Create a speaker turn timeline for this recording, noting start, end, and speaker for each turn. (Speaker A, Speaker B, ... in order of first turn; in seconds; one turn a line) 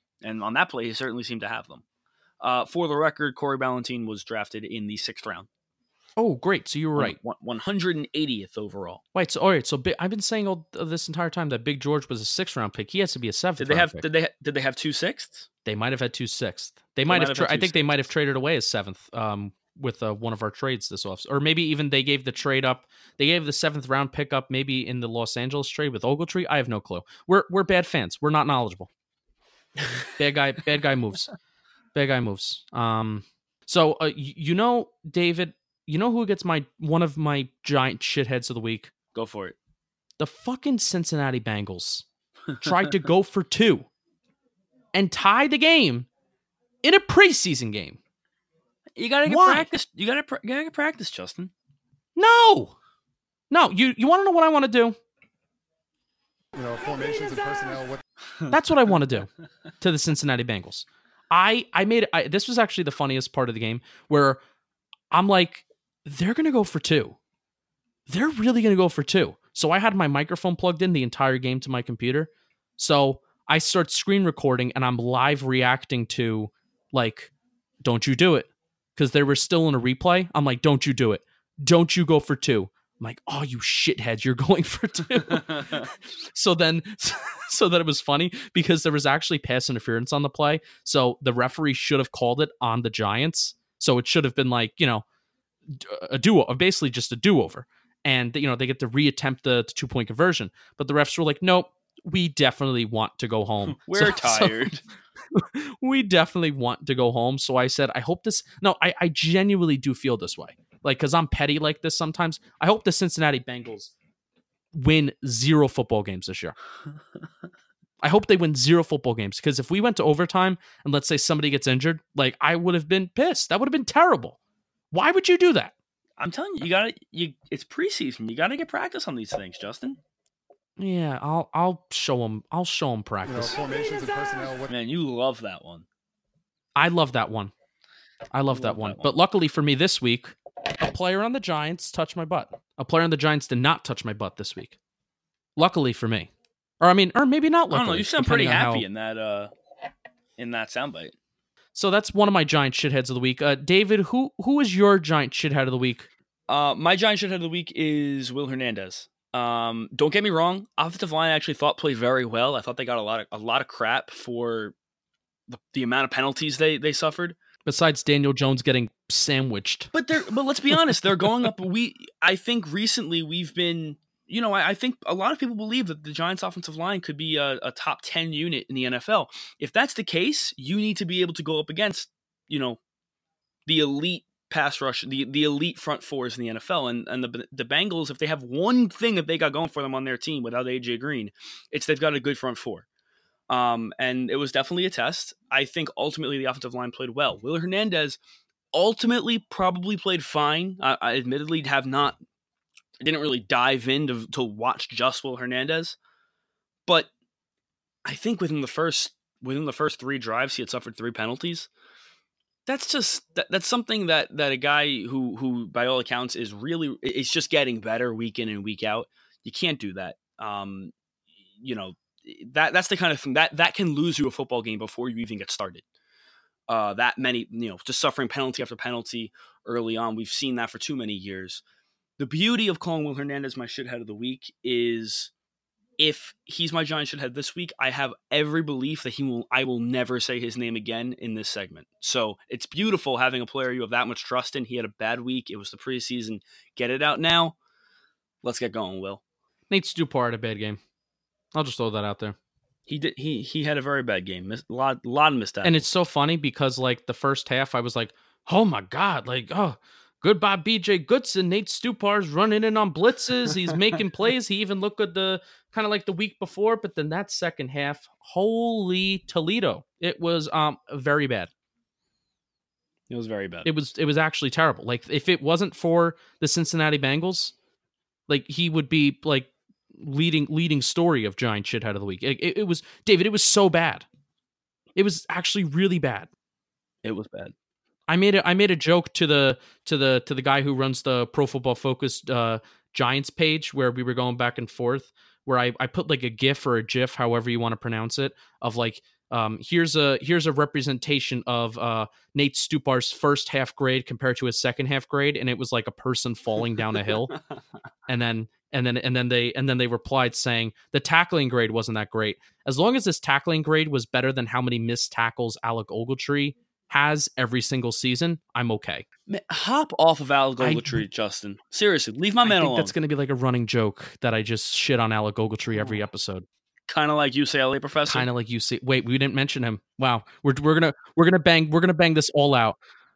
Speaker A: 0.2-1.8
Speaker A: 2.4-5.5
Speaker B: 6.2-7.2
Speaker A: 7.0-9.0
Speaker B: 9.1-14.1
Speaker A: 13.6-15.5
Speaker B: 15.6-28.9
Speaker A: 17.1-17.8
Speaker B: 30.0-31.3
Speaker B: 31.9-38.9
Speaker A: 39.1-39.5
Speaker B: 40.2-42.0
Speaker B: 42.5-43.9
Speaker B: 44.9-46.1
Speaker B: 46.8-48.0
Speaker A: 49.0-51.5
Speaker B: 49.3-49.7
Speaker B: 52.2-52.7
Speaker B: 53.5-55.0
Speaker C: 56.5-58.0
Speaker B: 58.5-59.3
Speaker B: 59.8-64.4
Speaker B: 65.1-67.2
Speaker B: 68.1-77.3
Speaker B: 77.8-95.0
Speaker B: 95.7-104.6
Speaker A: 103.7-104.8
Speaker B: 105.3-113.9
Speaker B: 114.7-116.5
Speaker B: 118.0-124.4
Speaker B: 124.9-125.7
Speaker A: 126.2-130.0
Speaker B: 130.8-133.6
Speaker C: 133.3-134.7
Speaker A: 134.7-135.9
Speaker B: 136.8-137.5
Speaker B: 138.3-144.8
Speaker A: 138.5-139.1
Speaker B: 145.6-146.3
Speaker B: 146.8-148.8
Speaker A: 147.7-149.5
Speaker A: 150.4-151.1
Speaker B: 151.7-156.1
Speaker A: 156.5-164.7
Speaker A: 165.5-167.4
Speaker B: 167.7-169.9
Speaker A: 169.9-182.8
Speaker A: 183.7-192.9
Speaker A: 193.5-198.2
Speaker A: 198.7-202.2
Speaker A: 203.0-206.0
Speaker A: 208.1-211.7
Speaker A: 212.7-220.9
Speaker A: 221.6-225.8
Speaker A: 226.7-231.6
Speaker A: 232.2-235.3
Speaker A: 236.0-247.6
Speaker A: 248.4-249.2
Speaker B: 249.7-250.8
Speaker B: 251.5-252.4
Speaker A: 252.9-255.8
Speaker B: 255.6-271.5
Speaker A: 273.1-273.7
Speaker B: 273.6-277.5
Speaker B: 278.3-284.1
Speaker B: 284.9-286.3
Speaker A: 287.0-287.5
Speaker B: 288.1-307.4
Speaker B: 308.1-319.1
Speaker A: 319.3-322.9
Speaker B: 320.6-321.0
Speaker B: 322.4-326.4
Speaker A: 325.8-326.0
Speaker A: 326.9-328.3
Speaker B: 328.1-332.8